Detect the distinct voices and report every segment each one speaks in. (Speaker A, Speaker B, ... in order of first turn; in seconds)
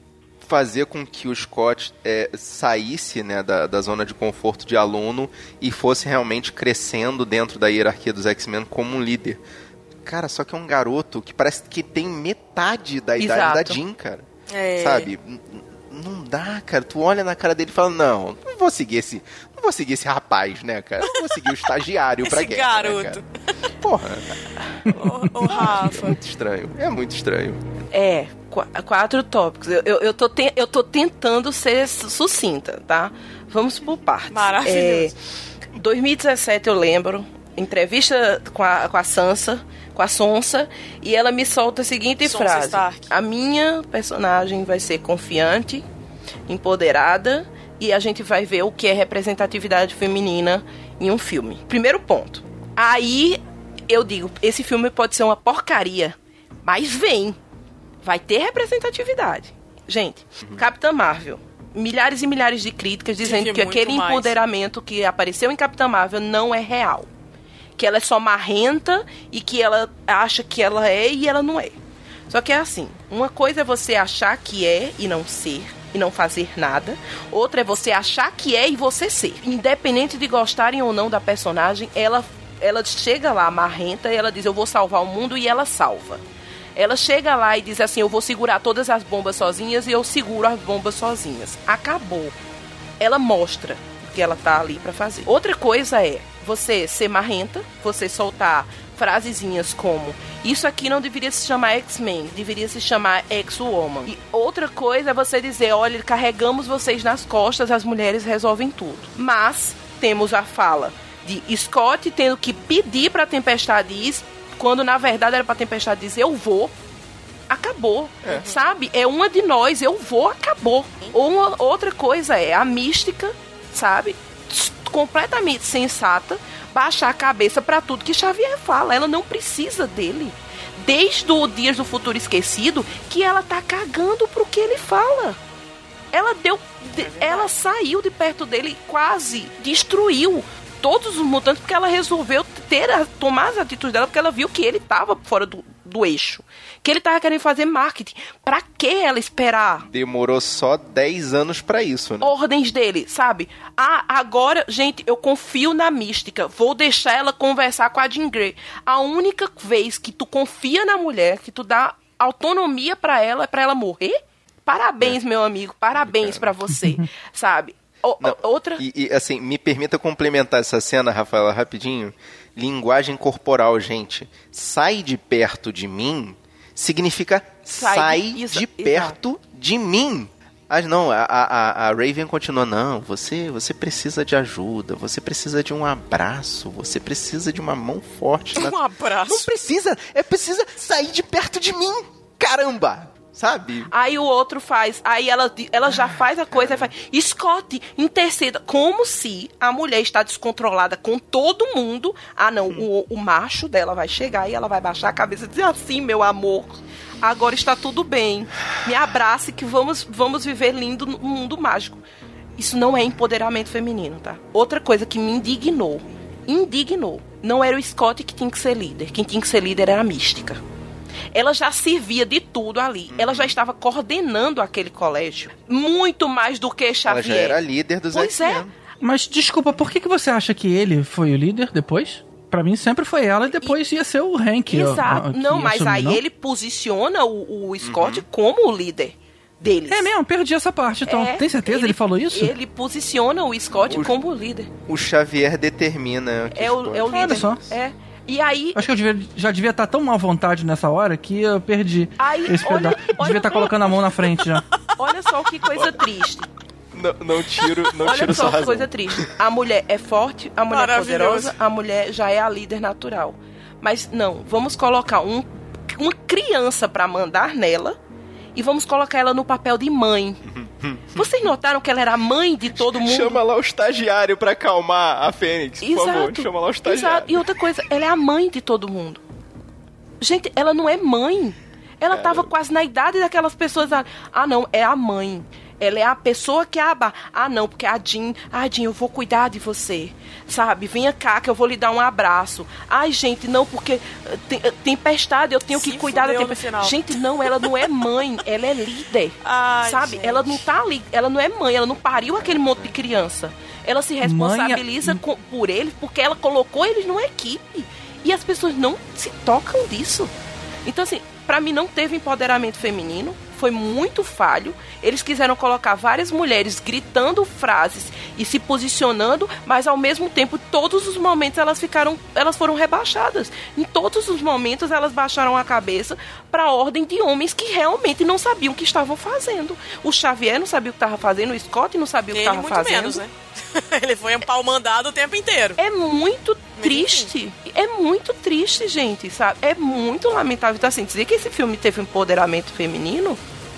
Speaker A: 0.4-9.4, 10.1-14.3, 14.8-23.2, 23.8-24.3, 25.4-27.6, 118.2-118.5, 149.9-152.3, 166.0-166.6, 168.2-193.9, 196.5-196.9, 223.1-223.5, 227.1-228.7, 237.8-238.3, 243.9-244.2, 244.9-247.5, 255.7-256.0, 256.9-259.3, 270.5-271.3, 272.7-277.6, 282.1-282.5, 302.4-303.0
Speaker B: 13.2-13.8, 27.9-35.1, 35.8-45.9, 46.5-57.4, 58.0-67.1, 67.8-71.8, 72.3-86.2, 86.8-92.3, 93.0-116.7, 117.5-135.4, 136.1-149.9, 152.2-168.8, 177.8-179.2, 193.9-212.0, 212.6-220.6, 221.3-227.6, 228.1-228.7, 234.7-240.1, 241.1-244.7, 246.5-248.9, 252.2-253.9, 255.0-256.5, 258.0-268.0, 268.6-270.4, 271.1-273.4, 275.8-279.2, 280.2-310.3, 310.9-333.2, 335.8-343.4
Speaker C: 14.5-15.1, 22.2-23.3, 24.9-26.2, 34.3-35.1, 42.2-43.1, 63.2-64.3, 136.9-137.5, 188.6-189.5, 260.7-261.5, 295.7-297.0, 299.4-300.6, 332.3-335.8, 336.8-337.3
Speaker D: 229.0-236.2, 239.9-242.5, 247.1-247.6, 248.8-254.6, 304.2-305.2